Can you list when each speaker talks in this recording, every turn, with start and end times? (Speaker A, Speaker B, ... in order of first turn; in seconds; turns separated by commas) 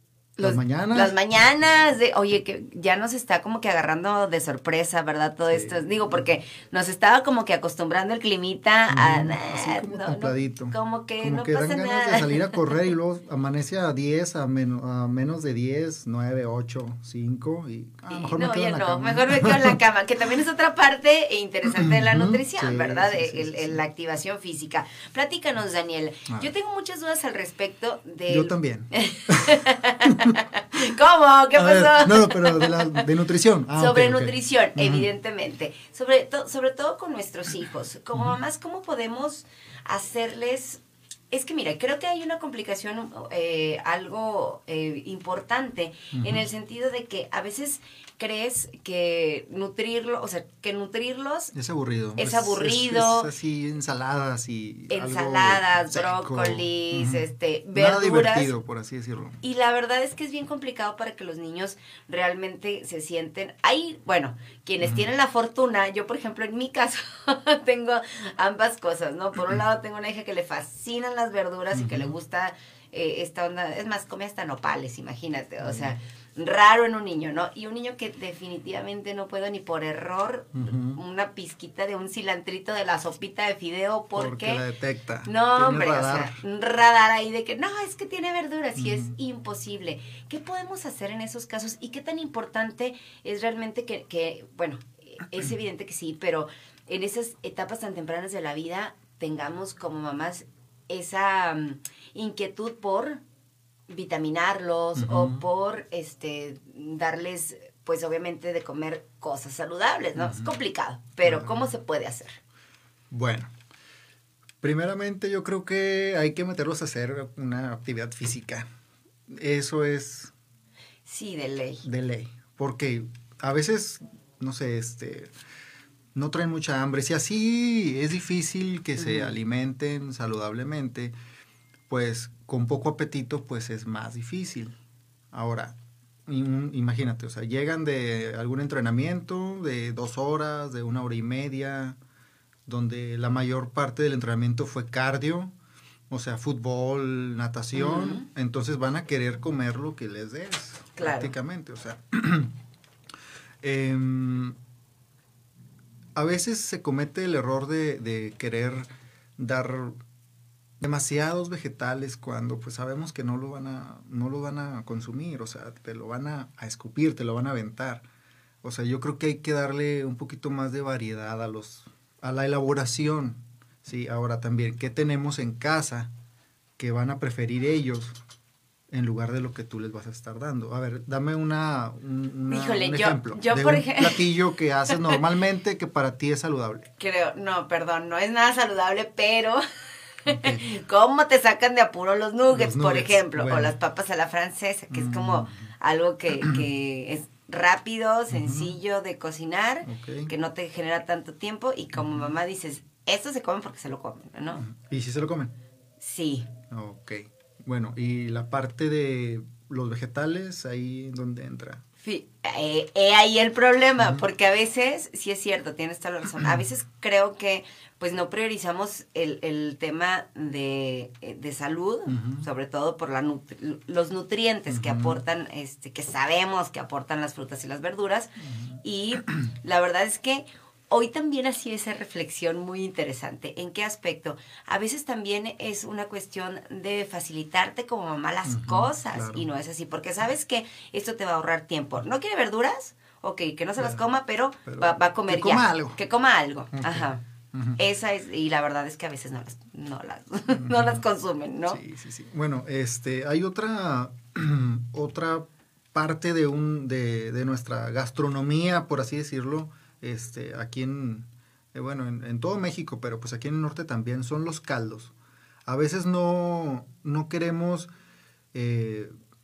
Speaker A: 0.4-1.2, Speaker B: 0.4-12.8, Speaker A: 5.5-6.2, Speaker A: 8.9-19.8, Speaker B: 18.1-33.0, Speaker A: 21.8-23.8, Speaker A: 28.3-30.4, Speaker A: 31.6-35.1, Speaker B: 33.8-51.5, Speaker A: 46.1-46.5, Speaker A: 51.5-59.4, Speaker B: 52.2-53.3, Speaker B: 54.9-58.5, Speaker B: 59.4-84.6, Speaker A: 64.8-65.1, Speaker A: 71.7-72.2, Speaker A: 75.6-76.0, Speaker A: 80.5-81.0, Speaker A: 84.2-86.4, Speaker B: 85.3-103.2, Speaker A: 88.8-89.1, Speaker B: 103.9-112.4, Speaker A: 105.0-105.4, Speaker A: 110.2-110.5, Speaker A: 111.2-111.6, Speaker A: 113.1-113.5, Speaker A: 114.6-118.7, Speaker A: 119.3-120.3, Speaker B: 121.1-121.8, Speaker A: 121.8-125.3, Speaker A: 126.2-131.1, Speaker B: 129.0-129.3, Speaker A: 131.9-134.8, Speaker A: 135.3-142.0, Speaker A: 142.7-145.5, Speaker A: 146.1-152.5, Speaker B: 147.8-148.2, Speaker B: 151.0-151.3, Speaker A: 153.6-154.6, Speaker A: 156.2-160.0, Speaker A: 160.8-168.1, Speaker A: 168.6-176.1, Speaker A: 176.8-178.2, Speaker A: 178.9-186.9, Speaker B: 182.5-184.3, Speaker B: 187.0-189.6, Speaker B: 190.2-204.6, Speaker A: 190.3-190.6, Speaker A: 192.5-193.7, Speaker A: 194.9-195.7, Speaker A: 198.3-198.8, Speaker A: 199.8-200.3, Speaker A: 202.0-202.3, Speaker A: 204.5-205.5, Speaker B: 206.0-206.5, Speaker A: 206.7-211.8, Speaker B: 212.0-247.2, Speaker A: 214.0-214.2, Speaker A: 216.4-216.6, Speaker A: 222.1-222.4, Speaker A: 224.7-225.2, Speaker A: 228.5-228.8, Speaker A: 238.4-239.5, Speaker A: 243.8-244.1, Speaker A: 244.7-246.0, Speaker A: 246.7-247.8, Speaker B: 247.8-251.8, Speaker A: 250.5-251.1, Speaker A: 251.7-265.1, Speaker A: 265.7-267.9, Speaker A: 268.5-269.1